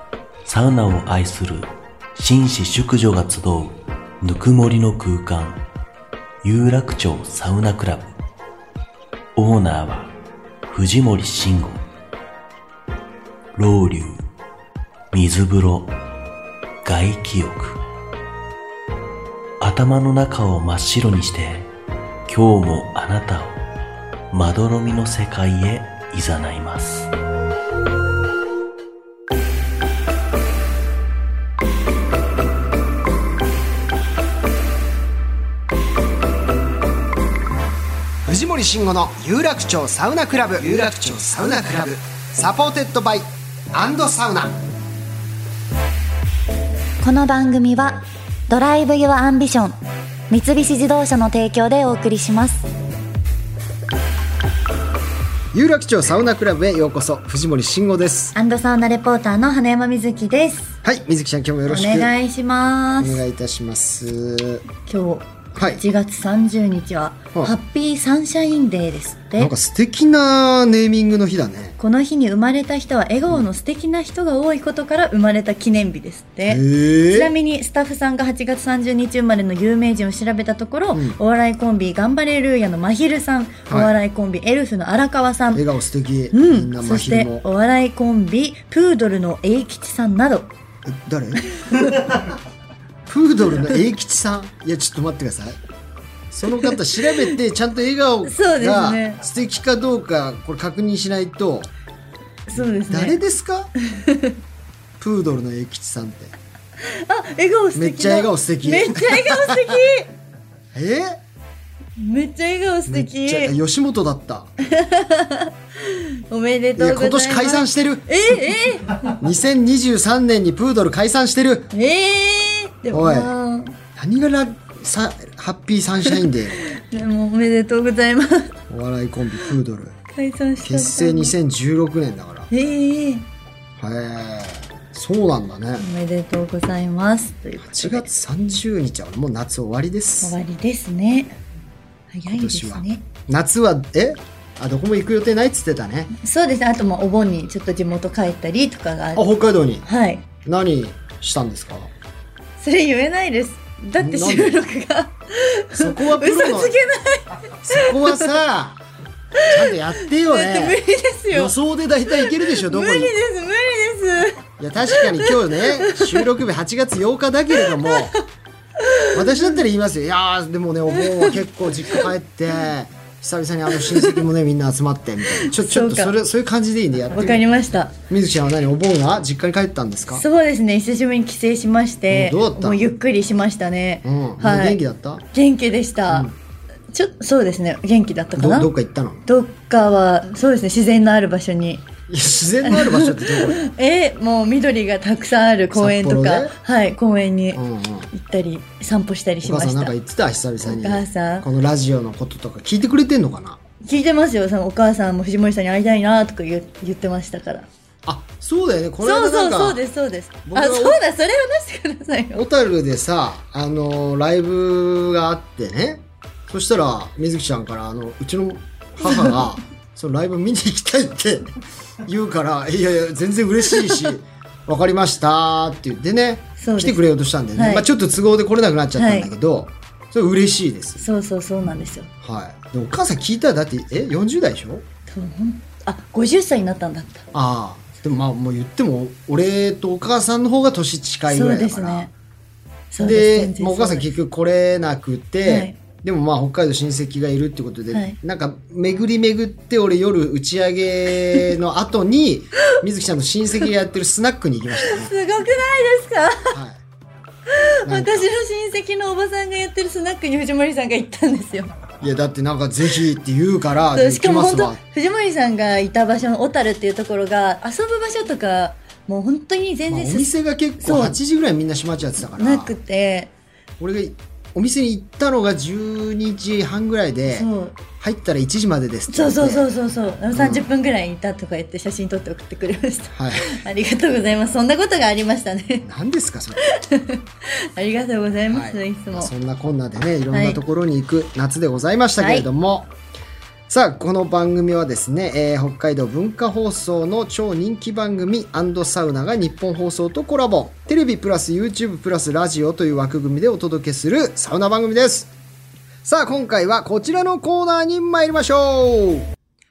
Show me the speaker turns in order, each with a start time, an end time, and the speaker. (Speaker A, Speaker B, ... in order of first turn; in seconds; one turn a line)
Speaker A: 0.5-5.6
Speaker A: 6.4-8.1
Speaker A: 9.3-10.1
Speaker A: 10.7-11.8
Speaker A: 13.5-14.2
Speaker A: 15.1-15.9
Speaker A: 16.8-17.8
Speaker A: 19.6-21.7
Speaker A: 22.3-23.6
Speaker A: 24.3-27.1
Speaker B: 38.2-44.6
Speaker C: 47.0-49.8
Speaker C: 50.3-52.7
Speaker B: 55.5-58.3
Speaker C: 58.3-60.7
Speaker B: 60.8-62.1
Speaker C: 61.7-63.2
Speaker B: 63.0-64.6
Speaker C: 64.8-69.5
Speaker B: 65.5-65.8
Speaker B: 69.4-71.8
Speaker C: 71.8-85.6
Speaker B: 76.5-77.3
Speaker B: 80.9-81.2
Speaker B: 83.7-83.9
Speaker B: 85.5-87.4
Speaker C: 86.3-90.5
Speaker B: 90.8-92.0
Speaker B: 93.1-95.6
Speaker B: 96.3-101.7
Speaker C: 97.0-97.3
Speaker C: 98.2-99.2
Speaker C: 102.5-103.2
Speaker B: 102.5-103.7
Speaker C: 103.9-104.3
Speaker B: 105.0-106.3
Speaker C: 106.8-110.1
Speaker B: 107.7-109.8
Speaker B: 110.7-111.2
Speaker C: 112.0-113.5
Speaker B: 112.9-114.5
Speaker C: 114.6-119.0
Speaker B: 116.8-118.1
Speaker B: 119.1-121.7
Speaker C: 121.7-123.8
Speaker B: 122.9-123.3
Speaker B: 124.0-126.6
Speaker C: 126.0-128.6
Speaker B: 128.7-129.9
Speaker C: 130.1-131.3
Speaker B: 130.6-132.5
Speaker C: 132.5-133.3
Speaker B: 133.8-135.8
Speaker C: 135.8-138.1
Speaker B: 137.7-140.4
Speaker C: 140.2-141.4
Speaker C: 142.1-143.0
Speaker B: 142.3-146.1
Speaker C: 146.1-149.2
Speaker B: 149.1-149.8
Speaker C: 149.8-150.3
Speaker B: 150.4-151.9
Speaker C: 152.6-158.3
Speaker B: 154.0-154.5
Speaker B: 155.7-156.7
Speaker B: 157.6-158.8
Speaker C: 159.4-161.5
Speaker B: 159.4-160.8
Speaker B: 161.3-163.1
Speaker C: 162.1-166.3
Speaker B: 164.6-168.1
Speaker C: 167.6-168.2
Speaker C: 168.8-169.6
Speaker B: 169.1-177.4
Speaker C: 170.9-171.4
Speaker C: 173.7-174.2
Speaker C: 175.2-176.1
Speaker C: 177.1-178.0
Speaker B: 178.0-180.2
Speaker C: 180.1-184.8
Speaker B: 182.1-182.8
Speaker B: 184.0-185.2
Speaker C: 185.3-186.3
Speaker B: 186.1-186.3
Speaker C: 186.9-188.7
Speaker B: 188.3-189.2
Speaker C: 189.2-191.8
Speaker B: 192.1-193.7
Speaker C: 192.6-199.9
Speaker B: 195.7-196.6
Speaker B: 197.5-198.1
Speaker B: 199.4-203.6
Speaker C: 200.6-201.5
Speaker C: 203.8-207.7
Speaker B: 208.0-209.8
Speaker C: 209.0-212.4
Speaker B: 210.4-211.0
Speaker B: 212.3-231.0
Speaker C: 219.0-219.4
Speaker C: 226.6-227.0
Speaker C: 227.5-227.8
Speaker C: 228.9-229.3
Speaker C: 231.0-232.1
Speaker B: 232.2-234.8
Speaker C: 235.1-237.2
Speaker B: 237.3-242.1
Speaker C: 241.3-242.1
Speaker C: 242.9-244.2
Speaker B: 243.0-255.1
Speaker C: 245.4-245.8
Speaker C: 247.9-248.2
Speaker C: 254.7-256.6
Speaker B: 256.5-256.8
Speaker C: 257.5-261.7
Speaker B: 257.8-258.3
Speaker B: 262.0-264.8
Speaker C: 263.9-271.2
Speaker B: 269.9-272.7
Speaker C: 272.2-273.3
Speaker B: 273.8-279.7
Speaker C: 277.3-277.8
Speaker C: 279.1-285.9
Speaker B: 280.3-280.7
Speaker B: 283.1-283.6
Speaker B: 285.8-286.7
Speaker C: 286.6-289.3
Speaker B: 288.5-292.9
Speaker C: 290.3-290.6
Speaker C: 292.2-292.4
Speaker B: 293.7-305.3
Speaker B: 306.0-309.3